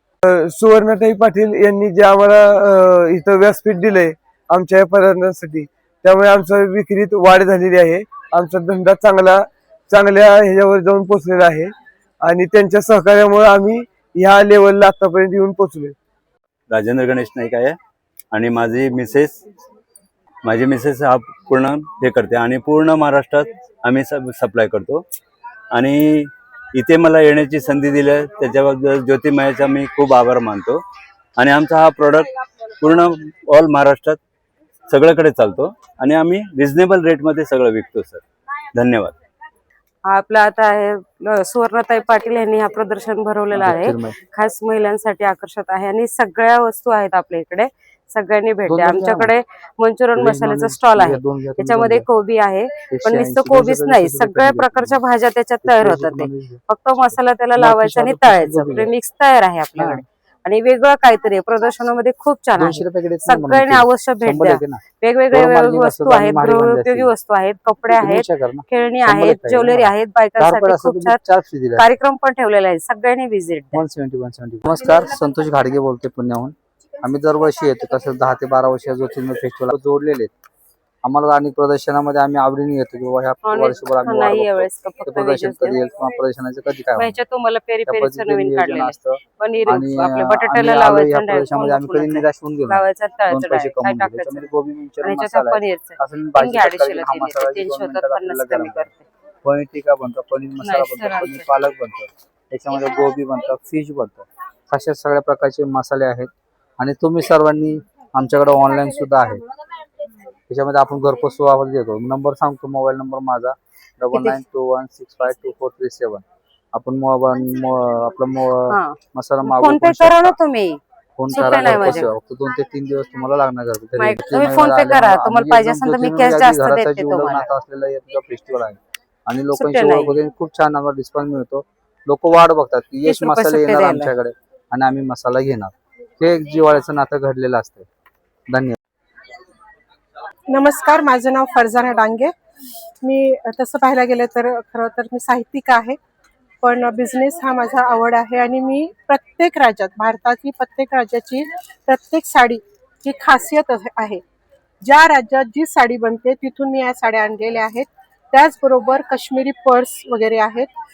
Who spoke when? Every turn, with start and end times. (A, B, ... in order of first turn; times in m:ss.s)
0:00.2-0:11.7 A
0:12.2-0:16.0 A
0:16.7-0:17.8 B
0:18.3-0:19.4 B
0:20.4-0:25.0 B
0:25.7-0:30.8 B
0:31.4-0:32.3 B
0:32.8-0:34.2 B
0:34.9-0:38.2 B
0:38.7-0:39.2 B
0:40.1-1:11.2 C
0:43.5-0:44.2 D
0:48.6-0:49.4 D
0:50.2-0:52.1 D
0:52.9-0:55.1 D
0:55.6-0:58.9 D
0:59.8-1:00.0 D
1:02.6-1:07.2 D
1:07.8-1:12.0 D
1:11.8-1:13.8 C
1:13.7-1:20.3 D
1:21.0-1:27.2 D
1:23.4-1:25.8 C
1:27.0-1:34.5 C
1:27.8-1:38.9 D
1:35.0-1:39.0 C
1:39.4-1:49.4 D
1:40.6-1:41.5 C
1:50.5-2:00.4 D
1:54.1-1:54.4 C
1:58.7-2:02.1 C
2:01.2-2:17.9 D
2:04.0-2:07.5 C
2:09.5-2:10.2 C
2:13.0-2:14.1 C
2:18.5-2:18.8 D
2:20.5-2:22.3 E
2:23.0-2:26.0 E
2:26.6-2:34.2 E
2:34.8-2:40.7 E